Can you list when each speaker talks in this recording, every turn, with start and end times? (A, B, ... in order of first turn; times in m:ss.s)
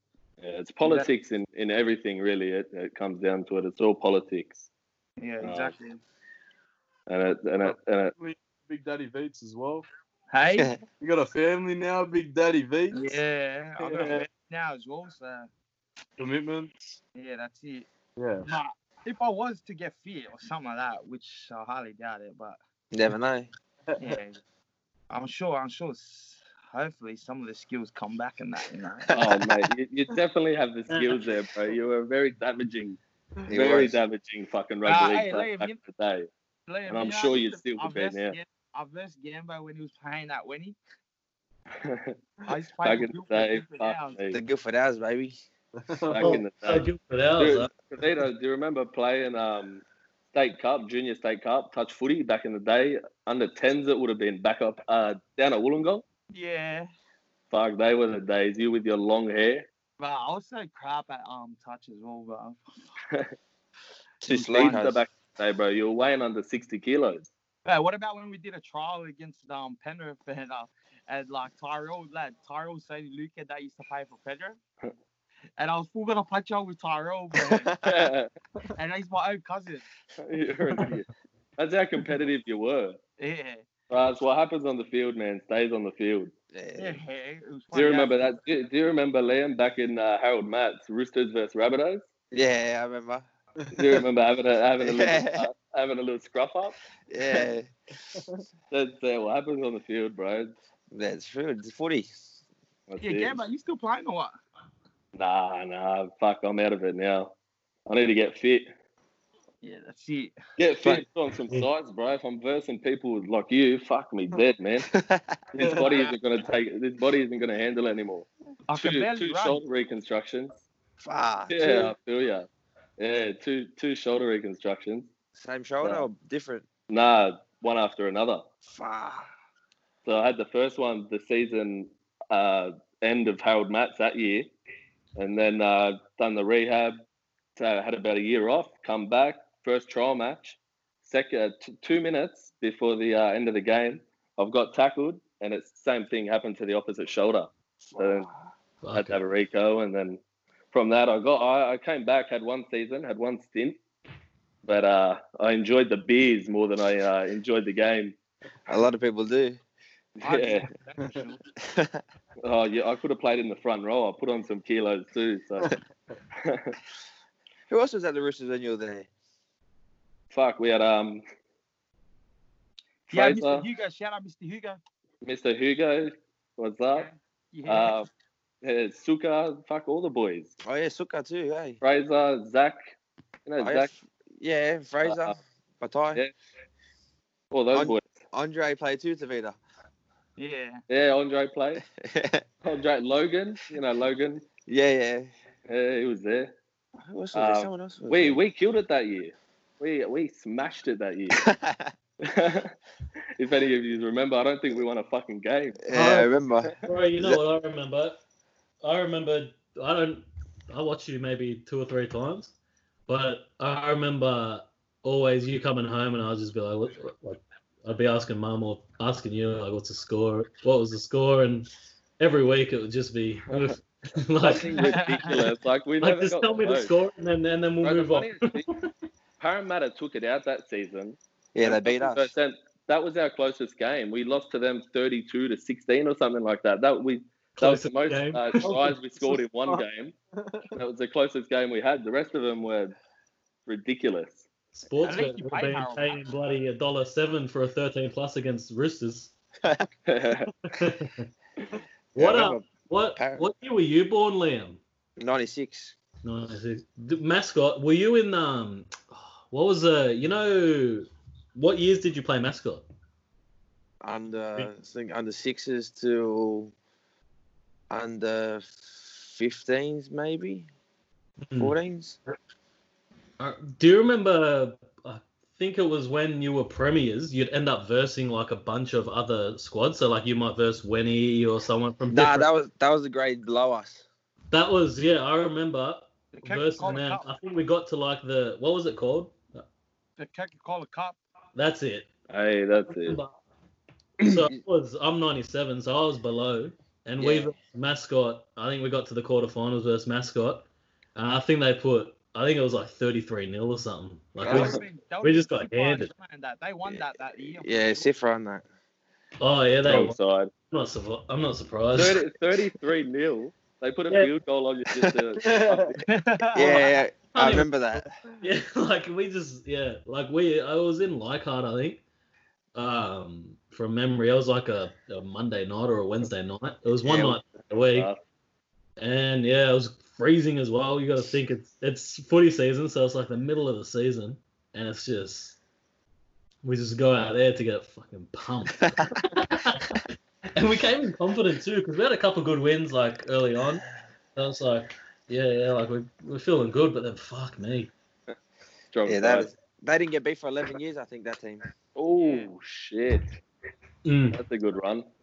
0:00.4-0:04.7 A
0:00.8-0:01.1 B
0:05.2-0:06.0 B
0:05.4-0:05.7 A
0:07.1-0:08.1 A
0:07.6-0:09.9 C
0:10.3-0:10.7 B
0:11.0-0:13.2 C
0:12.9-0:15.5 B
0:13.8-0:14.2 C
0:16.2-0:17.0 C
0:17.2-0:17.9 B
0:18.2-0:18.4 C
0:18.4-0:22.6 B
0:22.9-0:23.5 D
0:24.0-0:24.4 B
0:25.1-0:29.1 B
0:29.1-0:36.3 A
0:30.9-0:31.2 E
0:33.5-0:34.0 D
0:34.8-0:35.8 B
0:36.7-0:40.8 B
0:36.9-0:38.3 A
0:41.8-0:42.1 A
0:42.5-0:44.2 B
0:42.8-0:44.4 A
0:44.3-0:45.4 D
0:45.8-0:46.4 C
0:46.1-0:46.9 A
0:46.2-0:47.7 E
0:47.4-0:56.0 A
0:56.3-0:56.9 B
0:57.5-0:59.7 A
1:00.0-1:02.6 B
1:04.2-1:05.0 D
1:04.3-1:07.3 A
1:07.6-1:14.6 B
1:15.6-1:17.7 B
1:17.8-1:18.3 A
1:18.8-1:19.8 B
1:20.2-1:21.1 A
1:21.6-1:23.0 A
1:23.2-1:23.6 B
1:23.9-1:26.3 A
1:26.5-1:27.0 D
1:26.8-1:28.3 B
1:27.7-1:32.0 A
1:32.3-1:33.2 D
1:33.7-1:36.8 A
1:34.8-1:35.5 D
1:37.1-1:38.2 D
1:38.7-1:40.5 A
1:40.9-1:42.3 D
1:42.9-1:43.4 A
1:43.0-1:44.3 B
1:45.1-1:47.3 A
1:47.9-1:48.7 A
1:49.6-1:50.3 B
1:50.6-1:54.9 A
1:54.9-1:55.4 D
1:55.5-1:58.3 A
1:55.6-1:55.9 C
1:55.8-1:56.1 B
1:58.7-1:59.6 B
1:58.8-2:00.6 A
2:01.0-2:01.9 D
2:01.5-2:02.5 A
2:03.0-2:05.1 A
2:05.3-2:06.7 D
2:05.8-2:06.0 A
2:06.9-2:08.4 A
2:08.6-2:09.3 D
2:10.0-2:14.5 A
2:15.2-2:17.0 A
2:17.6-2:28.3 A
2:27.9-2:28.3 D
2:28.8-2:29.2 E
2:28.9-2:30.2 A
2:30.7-2:33.8 A
2:34.6-2:38.2 A
2:38.7-2:39.6 D
2:40.2-2:40.7 A
2:40.2-2:41.4 B
2:41.6-2:42.0 D
2:42.4-2:45.7 A
2:46.4-2:46.7 A
2:47.7-2:49.1 D
2:50.3-2:51.2 A
2:53.1-2:53.6 A
2:53.1-2:54.8 B
2:55.2-2:57.1 A
2:56.9-2:58.0 B
2:57.7-2:58.1 A
2:58.6-3:00.5 A
3:00.6-3:01.8 D
3:01.8-3:02.9 A
3:03.4-3:03.9 A
3:03.6-3:06.2 D
3:05.0-3:05.4 A
3:07.5-3:08.2 A
3:07.7-3:09.6 D
3:10.4-3:10.8 B
3:10.9-3:11.8 A
3:12.0-3:12.4 D
3:12.6-3:14.4 A
3:14.6-3:15.3 D
3:15.7-3:16.5 A
3:17.0-3:18.4 D
3:17.3-3:21.5 A
3:21.3-3:21.9 D
3:22.2-3:22.7 A
3:23.4-3:25.9 A
3:25.9-3:27.4 D
3:25.9-3:26.3 E
3:26.8-3:28.2 E
3:28.8-3:32.5 E
3:33.1-3:45.4 E
3:44.4-3:46.9 A
3:44.8-3:45.3 B
3:46.0-3:48.9 E
3:47.8-3:48.6 A
3:49.4-4:00.1 A
3:51.5-3:52.3 D
3:57.6-3:58.9 E
3:59.2-3:59.8 C
4:00.4-4:00.7 C
4:00.7-4:03.0 A
4:03.6-4:04.5 A
4:04.7-4:09.3 E
4:05.0-4:06.2 B
4:10.1-4:10.5 A
4:10.6-4:11.3 E
4:12.2-4:13.5 D
4:12.2-4:14.8 E
4:15.2-4:16.0 D
4:16.2-4:22.8 E
4:24.0-4:26.7 D
4:27.9-4:30.7 D
4:31.5-4:31.8 E
4:31.6-4:32.2 D
4:33.4-4:42.5 E
4:42.1-4:44.0 D
4:44.5-4:49.6 E
4:46.3-4:47.3 B
4:50.2-4:51.2 B
4:51.5-4:52.1 E
4:52.3-4:53.2 A
4:52.9-4:53.4 E
4:54.2-5:06.1 E
4:54.3-4:54.6 D
4:57.2-4:57.5 D
5:04.4-5:04.8 D
5:04.4-5:08.1 B
5:06.9-5:08.6 D
5:09.4-5:10.2 E
5:09.8-5:10.5 A
5:10.7-5:12.2 E
5:11.9-5:16.0 A
5:15.4-5:15.9 C
5:16.1-5:17.0 B
5:16.5-5:18.1 D
5:17.3-5:17.7 E
5:18.4-5:22.0 E
5:22.7-5:28.1 E
5:27.0-5:27.4 D
5:27.9-5:28.2 A
5:29.0-5:35.6 E
5:36.6-5:40.0 E
5:40.6-5:43.8 E
5:44.4-5:47.9 E
5:48.9-5:49.5 A
5:49.0-5:51.6 D
5:52.0-5:53.4 A
5:52.2-5:52.5 B
5:54.0-5:54.4 E
5:54.3-5:55.0 A